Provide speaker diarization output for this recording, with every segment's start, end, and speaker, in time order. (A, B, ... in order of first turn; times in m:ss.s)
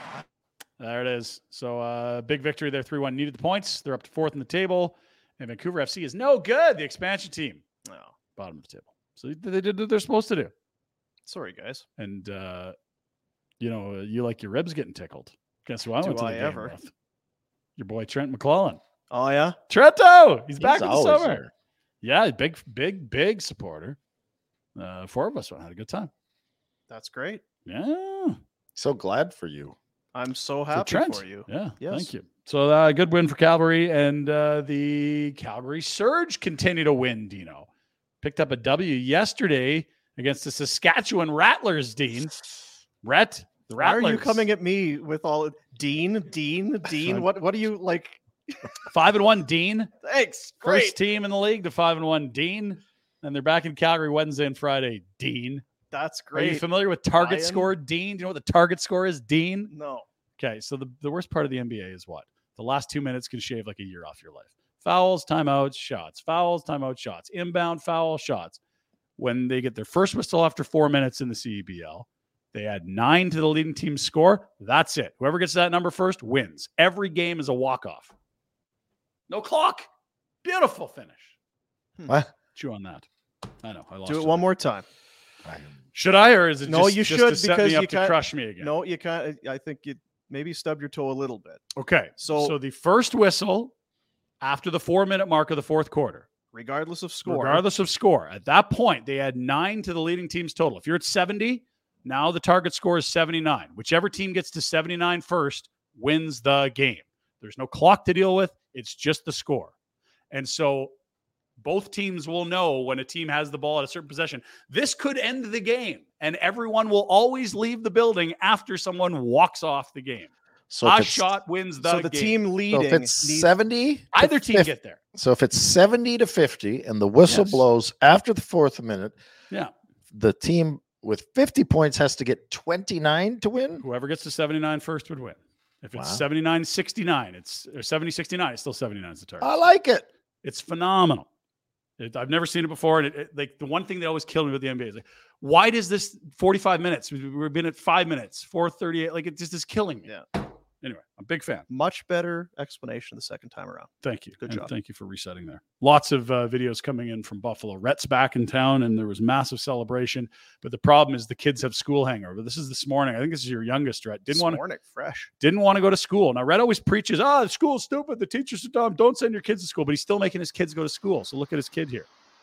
0:00.8-0:07.6 A
0:07.8-0:08.1 B
0:08.4-0:10.5 A
0:11.2-0:11.8 B
0:12.0-0:12.7 A
0:13.6-0:16.9 A
0:16.0-0:16.8 B
0:17.8-0:18.8 A
0:19.1-0:19.6 B
0:19.7-0:21.4 A
0:20.6-0:21.5 C
0:22.0-0:24.0 A
0:24.8-0:26.1 A
0:26.9-0:27.4 B
0:27.6-0:28.4 A
0:28.8-0:29.8 C
0:30.1-0:32.1 B
0:30.7-0:37.7 A
0:38.2-0:42.3 A
0:43.0-0:44.4 A
0:43.8-0:48.2 B
0:47.0-0:47.3 A
0:48.9-0:49.9 A
0:50.0-0:51.0 B
0:50.6-0:55.6 A
0:55.9-0:57.7 B
0:56.3-0:59.7 A
0:59.7-1:00.0 B
1:00.4-1:08.6 A
1:09.2-1:18.1 A
1:19.3-1:19.9 A
1:20.4-1:21.3 A
1:22.5-1:23.1 A
1:23.6-1:24.5 A
1:24.0-1:24.8 B
1:25.4-1:25.8 C
1:25.9-1:28.7 A
1:26.7-1:31.6 B
1:31.8-1:33.7 A
1:32.2-1:32.6 B
1:34.4-1:36.2 A
1:36.5-1:37.6 B
1:37.2-1:49.7 A
1:50.3-1:50.9 A
1:51.6-2:02.4 A
2:00.7-2:01.3 C
2:01.8-2:03.5 B
2:02.7-2:09.2 C
2:04.1-2:05.0 A
2:07.2-2:07.6 A
2:10.1-2:13.8 C
2:13.8-2:19.5 A
2:16.0-2:16.2 C
2:19.4-2:20.1 C
2:20.4-2:21.3 A
2:22.0-2:30.1 A
2:30.8-2:31.6 A
2:31.7-2:34.7 B
2:34.0-2:44.6 A
2:44.3-2:45.3 B
2:45.4-2:52.1 A